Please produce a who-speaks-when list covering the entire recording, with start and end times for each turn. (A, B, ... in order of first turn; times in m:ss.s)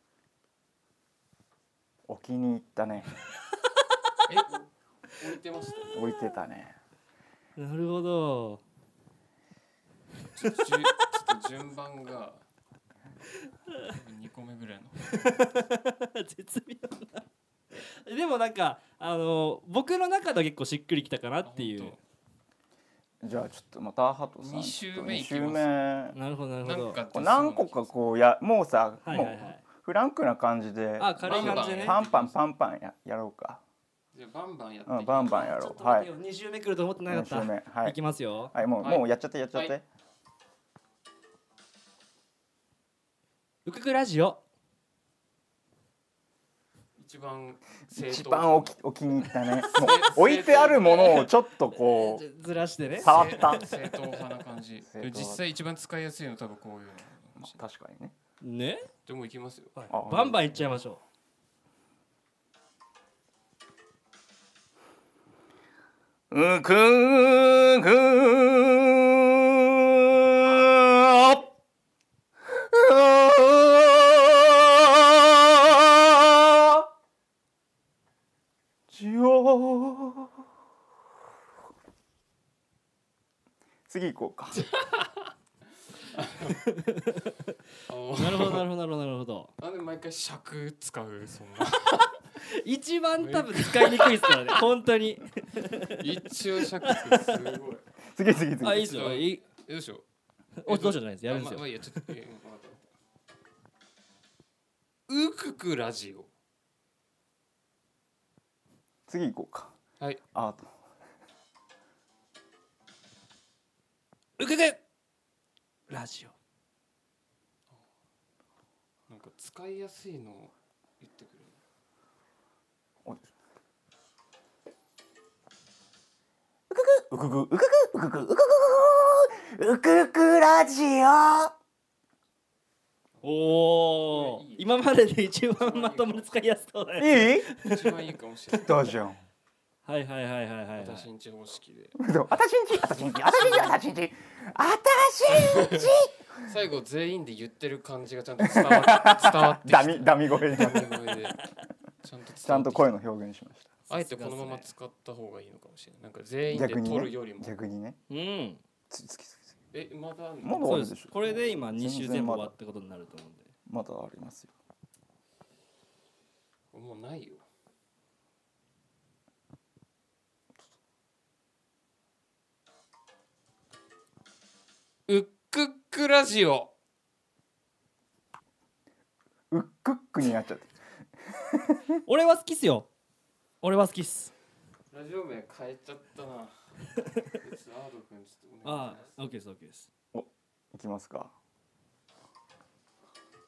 0:02.1-0:03.2 A
0:04.2-0:06.0 B
0:05.9-0:06.7 A
0:07.6-0:08.6 C
0:10.3-0:12.4 B
0:13.8-0:15.1 B
0:15.1-0:22.0 C
0:21.4-0:22.0 B
0:23.2-0:26.2 A
0:24.4-0:25.7 B
0:26.1-0:27.0 C
0:26.6-0:27.9 B
0:27.1-0:33.6 A
0:29.0-0:29.6 C
0:31.0-0:32.0 C
0:31.2-0:32.4 B
0:34.1-0:35.5 B
0:34.8-0:36.1 A
0:35.4-0:38.5 C
0:37.1-0:38.0 A
0:38.5-0:39.8 A
0:38.8-0:39.8 B
0:43.6-0:44.4 C
0:47.0-0:48.7 B
0:48.0-0:52.2 A
0:49.5-0:51.3 B
0:51.9-0:53.6 C
0:52.9-0:57.6 B
0:53.0-0:53.7 A
0:54.8-0:55.4 A
0:57.4-0:58.1 A
0:58.4-0:58.9 C
0:59.0-0:59.8 B
0:59.7-1:01.0 C
0:59.9-1:00.6 A
1:06.3-1:11.4 A
1:12.5-1:16.9 A
1:18.9-1:20.4 A
1:23.9-1:24.6 A
1:24.5-1:25.1 B
1:26.0-1:26.6 B
1:27.9-1:28.6 B
1:28.1-1:29.5 C
1:29.6-1:32.2 B
1:32.4-1:36.1 C
1:33.2-1:34.6 B
1:35.9-1:37.9 B
1:36.8-1:37.4 C
1:38.1-1:39.0 A
1:38.6-1:39.4 C
1:38.8-1:40.0 B
1:40.6-1:42.1 C
1:40.6-1:42.9 B
1:45.1-1:46.3 B
1:49.1-1:49.7 A
1:50.3-1:50.7 A
1:54.4-1:54.8 C
1:55.9-1:56.4 C
1:59.1-2:01.6 B
2:06.7-2:11.5 A
2:13.2-2:17.9 C
2:14.1-2:14.9 B
2:15.6-2:16.3 B
2:17.0-2:17.5 A
2:17.6-2:19.0 B
2:18.5-2:19.2 A
2:19.8-2:21.1 C
2:20.8-2:22.0 B
2:22.0-2:26.1 A
2:25.3-2:31.4 B
2:28.4-2:30.9 A
2:32.0-2:33.0 B
2:32.4-2:33.7 A
2:33.9-2:37.6 B
2:33.9-2:34.7 C
2:36.5-2:38.0 A
2:38.1-2:38.6 C
2:38.9-2:39.5 A
2:39.7-2:40.8 B
2:40.4-2:42.5 A
2:40.6-2:43.5 C
2:43.7-2:44.5 A
2:46.7-2:47.4 B
2:55.1-2:56.7 B
2:59.5-3:00.7 A
3:01.4-3:01.8 A
3:02.0-3:02.9 C
3:03.6-3:04.3 C
3:04.9-3:09.2 B
3:08.6-3:09.9 C
3:10.1-3:11.3 A